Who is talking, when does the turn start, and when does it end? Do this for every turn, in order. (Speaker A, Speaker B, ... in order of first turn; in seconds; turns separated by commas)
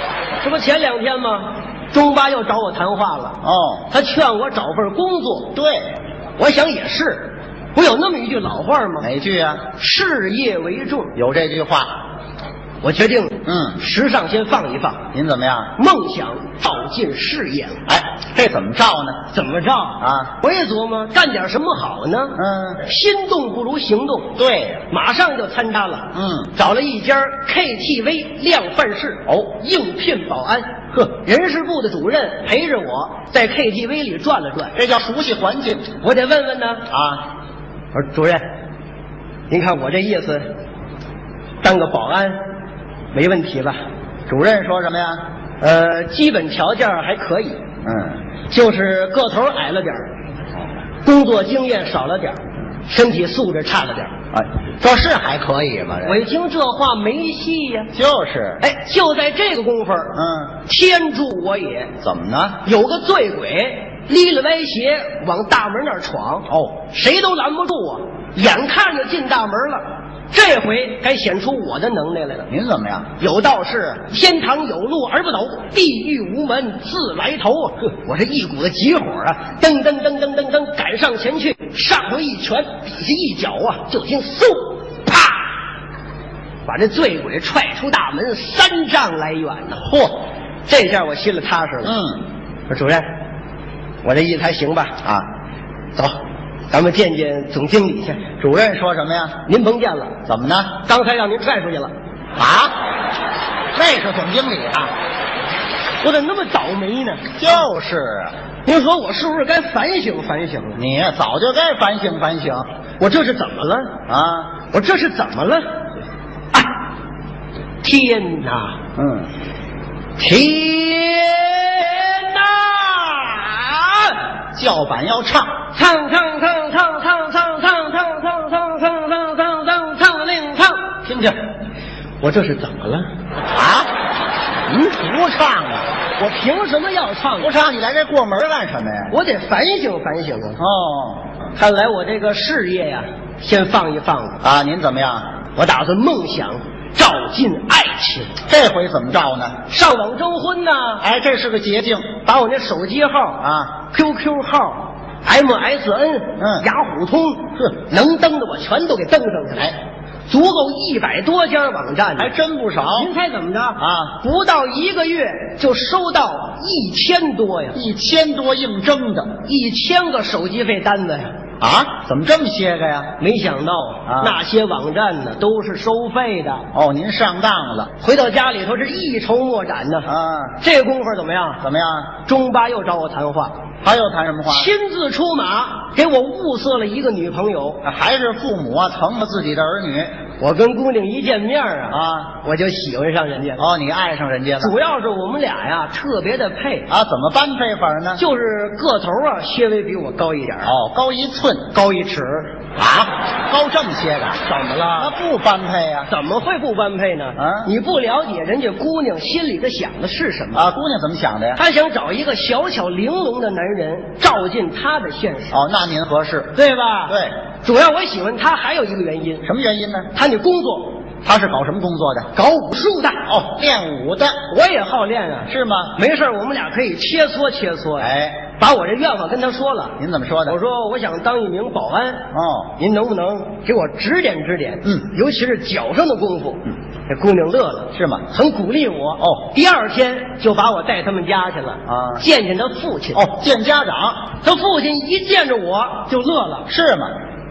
Speaker A: 0.4-5.5, Speaker B: 3.4-3.9, Speaker B: 5.5-5.9, Speaker A: 6.4-9.1, Speaker B: 9.0-9.7, Speaker A: 9.7-11.1, Speaker B: 11.2-11.9, Speaker A: 12.8-15.1, Speaker B: 13.5-13.8, Speaker B: 15.1-15.7, Speaker A: 15.8-17.8, Speaker B: 17.9-19.3, Speaker A: 19.3-24.4, Speaker B: 20.0-20.3, Speaker B: 22.4-22.8, Speaker B: 24.4-24.9, Speaker A: 24.9-34.8, Speaker B: 26.1-26.5, Speaker B: 34.8-35.9, Speaker A: 36.0-36.9, Speaker B: 36.9-37.2, Speaker A: 37.9-38.4, Speaker A: 39.5-40.5, Speaker A: 41.6-42.4, Speaker A: 43.1-43.8, Speaker B: 44.3-45.2, Speaker A: 45.6-47.6, Speaker B: 47.9-48.2, Speaker A: 48.5-50.1, Speaker A: 51.0-54.1, Speaker B: 54.3-56.2, Speaker A: 56.0-57.9, Speaker B: 57.9-58.6, Speaker A: 58.6-61.9, Speaker B: 60.1-60.5, Speaker B: 62.0-62.6, Speaker A: 62.6-72.5, Speaker B: 72.5-73.1, Speaker A: 73.2-85.4, Speaker A: 86.7-89.9, Speaker B: 89.8-90.2, Speaker A: 90.7-92.0, Speaker B: 91.8-92.2, Speaker A: 92.7-93.0, Speaker A: 94.0-95.0, Speaker A: 96.7-98.2, Speaker B: 98.4-99.4, Speaker A: 99.5-100.2, Speaker B: 100.3-100.8, Speaker A: 100.8-101.9, Speaker B: 102.4-102.8, Speaker B: 103.8-104.9, Speaker A: 106.0-107.4, Speaker B: 107.4-108.3, Speaker A: 108.7-110.8, Speaker B: 110.8-112.7, Speaker A: 113.0-114.0, Speaker B: 114.1-114.6, Speaker A: 114.7-115.6, Speaker A: 117.8-118.8, Speaker B: 119.0-119.3, Speaker A: 120.2-124.2, Speaker B: 124.5-125.6, Speaker A: 125.7-130.9, Speaker B: 131.1-131.4, Speaker A: 132.2-133.1, Speaker B: 133.5-133.9, Speaker B: 134.7-135.9, Speaker A: 136.2-137.5, Speaker B: 137.4-139.1, Speaker A: 139.1-140.6, Speaker B: 140.6-141.2, Speaker A: 141.6-144.4, Speaker B: 144.4-145.3, Speaker A: 145.6-148.3, Speaker B: 148.5-149.6, Speaker A: 149.7-151.1, Speaker B: 151.0-152.1, Speaker A: 152.2-159.8, Speaker B: 153.4-153.8, Speaker B: 156.4-156.7, Speaker A: 160.3-167.8, Speaker B: 162.2-163.1, Speaker B: 163.8-164.2, Speaker B: 167.7-169.4, Speaker A: 169.4-171.3, Speaker B: 171.6-173.1, Speaker A: 173.2-176.7, Speaker B: 174.1-174.4, Speaker B: 176.7-177.9, Speaker A: 178.0-180.1, Speaker B: 180.1-180.6, Speaker A: 180.6-181.6, Speaker B: 181.6-182.2, Speaker A: 182.2-183.6, Speaker B: 183.8-184.7, Speaker A: 184.5-187.8, Speaker B: 187.8-190.1, Speaker A: 190.4-193.7, Speaker B: 191.9-192.3, Speaker B: 193.6-194.7, Speaker A: 194.6-196.9, Speaker B: 196.9-198.2, Speaker A: 198.2-200.8, Speaker B: 200.7-201.7, Speaker A: 201.7-202.5, Speaker B: 202.8-204.4, Speaker A: 204.4-205.2, Speaker B: 205.0-206.1, Speaker A: 206.1-210.7, Speaker B: 207.4-207.7, Speaker B: 210.5-211.6, Speaker A: 211.6-215.6, Speaker B: 215.5-216.6, Speaker A: 216.6-219.5, Speaker B: 219.4-220.1, Speaker A: 220.1-221.0, Speaker B: 221.2-222.3, Speaker A: 222.3-223.3, Speaker B: 223.3-224.4, Speaker A: 224.5-243.3, Speaker B: 225.5-225.9, Speaker B: 228.0-228.4, Speaker B: 230.0-230.6, Speaker B: 232.3-232.7, Speaker B: 237.9-238.3, Speaker B: 241.9-242.2, Speaker B: 243.1-244.3, Speaker A: 244.4-246.7, Speaker B: 246.7-247.1